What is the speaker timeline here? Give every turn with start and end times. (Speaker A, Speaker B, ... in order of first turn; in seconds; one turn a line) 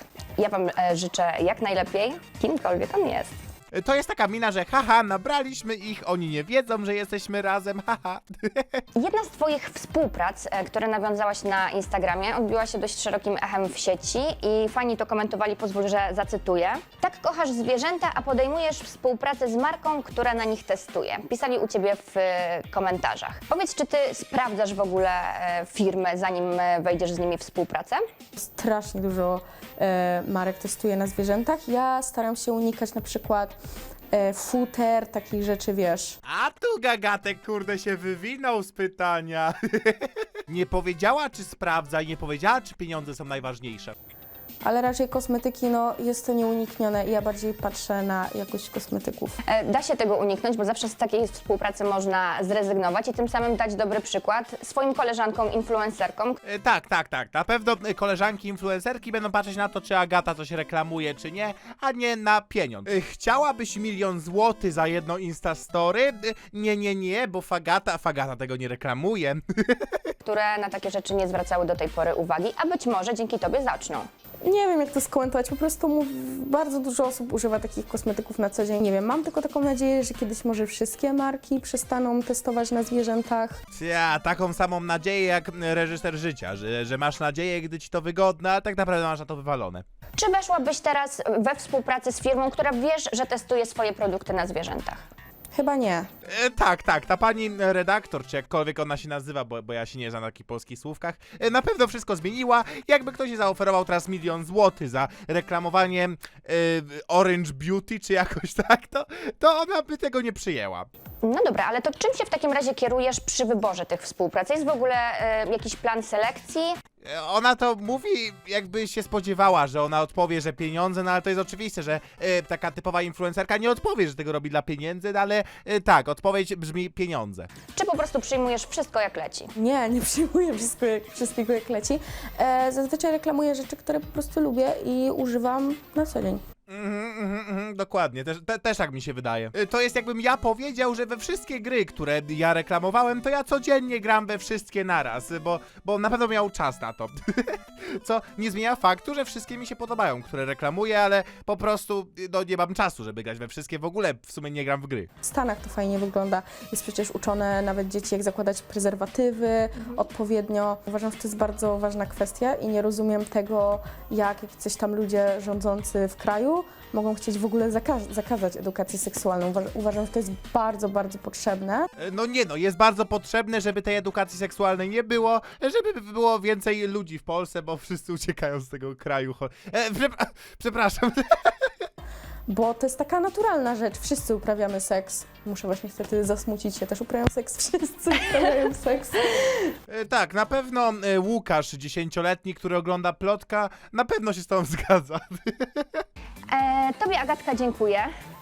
Speaker A: 0.4-3.3
Speaker B: 3.7-8.8
Speaker A: 9.0-28.0
Speaker C: 28.4-33.6
Speaker C: 34.1-36.2
Speaker B: 36.2-43.9
Speaker C: 44.6-49.4
Speaker A: 49.5-56.4
Speaker B: 56.4-70.1
Speaker A: 70.2-74.1
Speaker C: 74.4-83.6
Speaker B: 83.7-89.8
Speaker A: 90.2-95.1
Speaker C: 95.5-96.1
Speaker B: 96.2-110.9
Speaker A: 111.2-116.8
Speaker B: 117.0-127.5
Speaker A: 127.8-129.5
Speaker C: 129.6-136.4
Speaker B: 136.7-155.1
Speaker C: 155.2-171.9
Speaker B: 172.0-181.7
Speaker C: 182.5-189.7
Speaker B: 189.9-196.0
Speaker A: 196.5-198.1